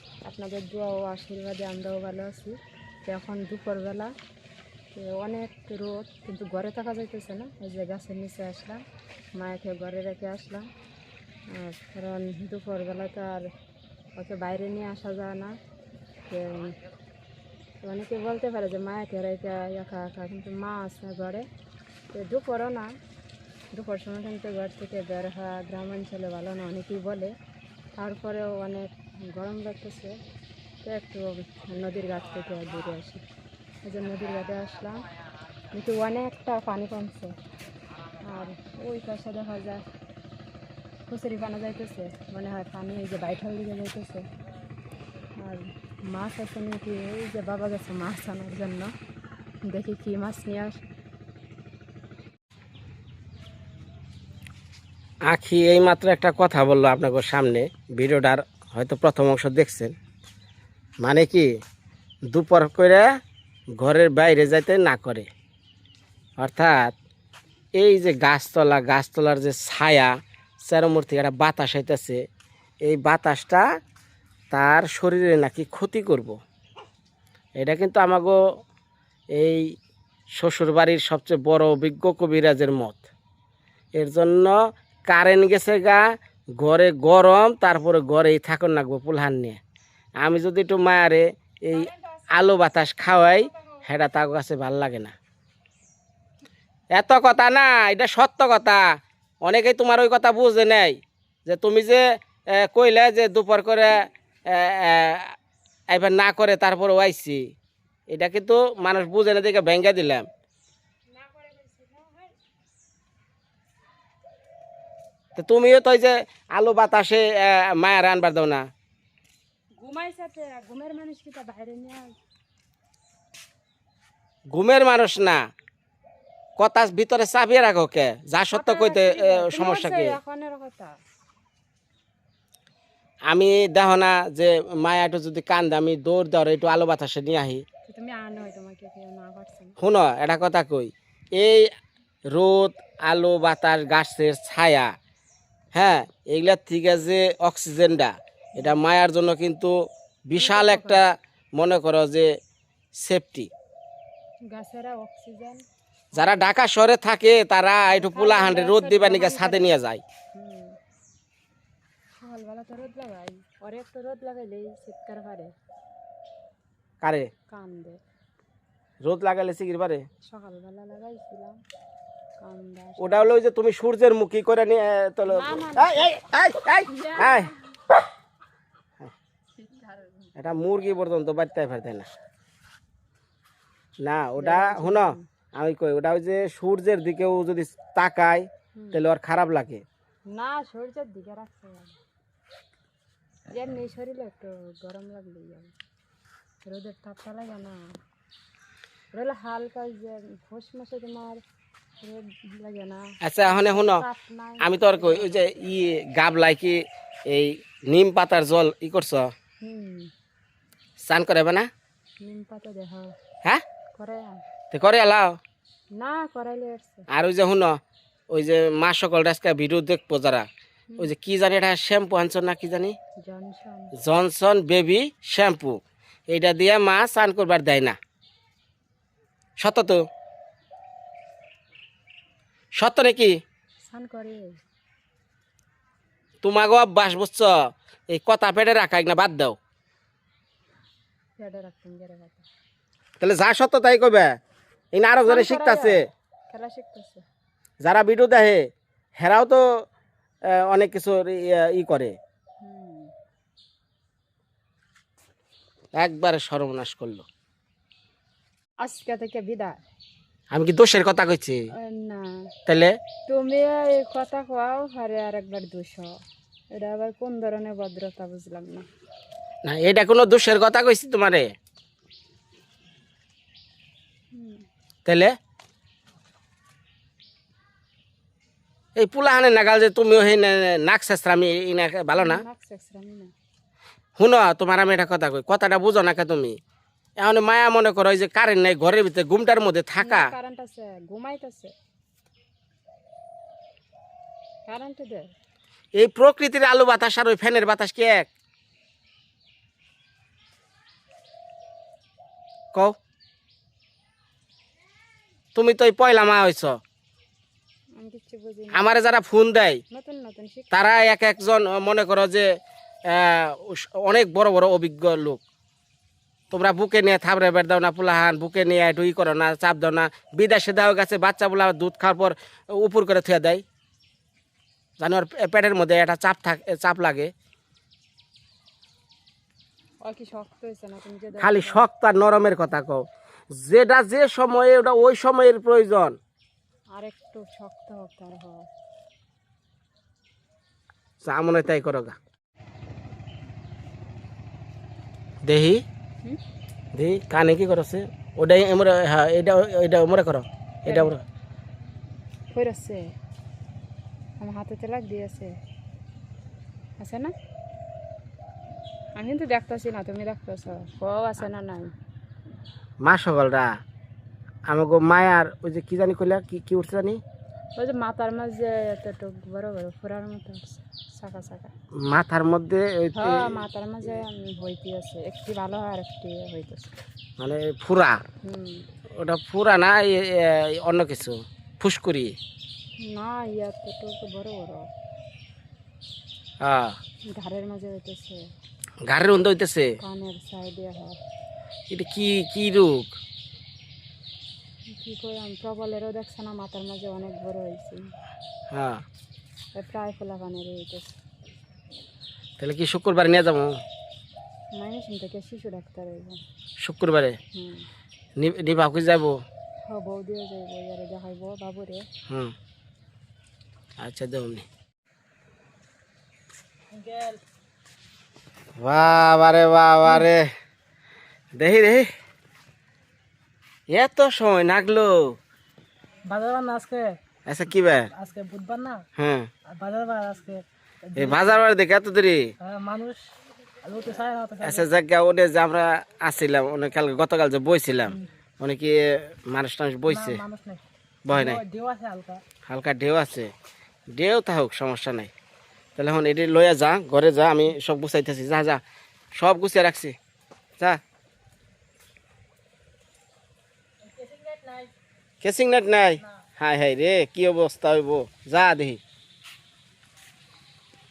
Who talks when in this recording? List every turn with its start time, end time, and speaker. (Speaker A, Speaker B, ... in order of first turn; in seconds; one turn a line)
Speaker A: 0.2-4.1
Speaker A: 4.9-8.8
Speaker A: 9.3-10.7
Speaker A: 11.5-13.5
Speaker A: 14.2-15.6
Speaker A: 16.3-16.7
Speaker A: 17.8-21.5
Speaker A: 22.1-22.9
Speaker A: 23.7-27.4
Speaker A: 27.9-30.2
Speaker A: 30.8-33.2
Speaker A: 33.8-35.0
Speaker A: 35.7-37.3
Speaker A: 38.2-39.8
Speaker A: 41.1-44.2
Speaker A: 45.4-48.9
Speaker A: 49.6-50.8
Speaker B: 55.3-59.9
Speaker B: 61.0-61.5
Speaker B: 62.3-63.0
Speaker B: 63.8-65.3
Speaker B: 66.4-66.9
Speaker B: 67.8-72.2
Speaker B: 72.8-73.7
Speaker B: 74.5-76.4
Speaker B: 77.6-78.4
Speaker B: 79.4-79.7
Speaker B: 80.4-83.0
Speaker B: 84.0-84.6
Speaker B: 85.1-86.0
Speaker B: 86.6-89.6
Speaker B: 90.2-95.1
Speaker A: 91.7-93.8
Speaker B: 96.9-98.8
Speaker B: 99.4-102.0
Speaker B: 102.5-105.3
Speaker B: 105.9-107.5
Speaker B: 108.1-110.3
Speaker A: 111.1-112.3
Speaker B: 115.4-118.7
Speaker A: 119.8-122.2
Speaker B: 124.5-125.5
Speaker B: 126.6-130.2
Speaker A: 128.5-131.0
Speaker B: 133.3-137.7
Speaker A: 137.8-139.8
Speaker B: 139.8-141.7
Speaker B: 142.3-144.9
Speaker B: 145.7-149.7
Speaker B: 150.3-152.3
Speaker A: 150.4-151.0
Speaker B: 153.0-153.5
Speaker A: 154.5-155.6
Speaker B: 156.2-160.0
Speaker A: 157.9-159.7
Speaker A: 160.3-160.8
Speaker A: 162.2-165.5
Speaker B: 167.0-167.3
Speaker A: 167.5-168.0
Speaker B: 169.0-170.1
Speaker A: 170.2-171.6
Speaker A: 172.4-173.3
Speaker B: 173.0-177.5
Speaker A: 175.3-176.1
Speaker A: 176.9-177.5
Speaker A: 179.6-180.3
Speaker B: 180.4-182.1
Speaker B: 184.0-189.8
Speaker A: 184.4-185.2
Speaker A: 190.3-192.0
Speaker A: 193.5-195.7
Speaker A: 196.7-197.8
Speaker A: 199.1-201.4
Speaker A: 202.0-205.6
Speaker B: 203.2-204.1
Speaker B: 204.6-209.3
Speaker A: 209.6-210.1
Speaker B: 211.0-211.7
Speaker A: 212.2-213.1
Speaker A: 213.9-214.4
Speaker B: 214.7-215.4
Speaker A: 216.0-217.1
Speaker B: 217.1-217.8
Speaker B: 218.3-220.5
Speaker B: 221.0-223.0
Speaker A: 223.2-223.9
Speaker B: 224.0-228.0
Speaker B: 229.6-230.0
Speaker B: 232.8-233.3
Speaker A: 233.9-234.6
Speaker B: 236.4-239.6
Speaker A: 241.4-242.5
Speaker B: 243.2-244.3
Speaker B: 244.9-246.0
Speaker A: 245.2-246.0
Speaker A: 246.5-247.2
Speaker B: 247.8-248.6
Speaker B: 249.2-249.6
Speaker B: 250.7-252.2
Speaker A: 252.6-253.1
Speaker B: 255.9-257.2
Speaker A: 258.8-259.8
Speaker B: 260.5-261.6
Speaker A: 261.8-262.4
Speaker B: 262.7-262.9
Speaker A: 263.3-266.1
Speaker A: 266.8-268.9
Speaker B: 269.6-271.5
Speaker A: 274.3-274.7
Speaker B: 275.1-275.4
Speaker B: 279.0-282.4
Speaker A: 282.1-283.3
Speaker B: 284.2-286.6
Speaker B: 287.2-290.3
Speaker A: 290.0-291.7
Speaker A: 294.7-295.3
Speaker B: 296.0-298.3
Speaker B: 305.6-306.8
Speaker A: 308.0-308.9
Speaker B: 308.7-309.8
Speaker A: 309.9-310.8
Speaker B: 310.7-312.5
Speaker B: 313.1-315.4
Speaker B: 316.5-323.6
Speaker B: 325.0-327.3
Speaker A: 330.0-331.8
Speaker B: 331.4-336.2
Speaker A: 336.9-338.7
Speaker B: 341.2-342.2
Speaker B: 345.4-345.8
Speaker B: 346.9-351.2
Speaker A: 350.9-351.1
Speaker A: 352.5-353.1
Speaker A: 354.4-355.5
Speaker A: 357.0-357.3
Speaker A: 359.2-361.9
Speaker B: 363.0-363.8
Speaker B: 364.7-367.2
Speaker A: 367.8-371.7
Speaker B: 371.9-373.6
Speaker A: 373.2-376.9
Speaker B: 377.4-378.2
Speaker A: 378.4-378.9
Speaker B: 379.2-382.4
Speaker A: 383.0-384.9
Speaker B: 386.6-387.0
Speaker A: 387.3-388.4
Speaker B: 389.1-389.9
Speaker A: 390.0-391.2
Speaker B: 391.9-393.2
Speaker A: 394.9-398.1
Speaker B: 398.7-399.0
Speaker A: 399.8-401.2
Speaker B: 402.6-403.8
Speaker A: 404.7-406.4
Speaker B: 406.8-407.4
Speaker A: 407.6-407.9
Speaker B: 408.4-409.4
Speaker A: 409.9-412.1
Speaker B: 412.3-412.6
Speaker B: 414.0-414.7
Speaker C: 416.9-417.4
Speaker B: 418.8-420.5
Speaker B: 421.6-422.1
Speaker B: 423.9-425.4
Speaker C: 426.3-427.1
Speaker B: 427.5-428.1
Speaker C: 428.2-429.0
Speaker B: 429.2-429.5
Speaker C: 429.8-431.6
Speaker B: 431.2-432.4
Speaker C: 432.6-433.2
Speaker C: 433.8-434.9
Speaker B: 434.6-440.4
Speaker C: 440.1-442.4
Speaker B: 441.3-441.6
Speaker B: 442.7-443.5
Speaker B: 444.1-445.3
Speaker B: 445.9-448.8
Speaker B: 449.4-450.2
Speaker C: 454.0-454.9
Speaker B: 455.4-459.0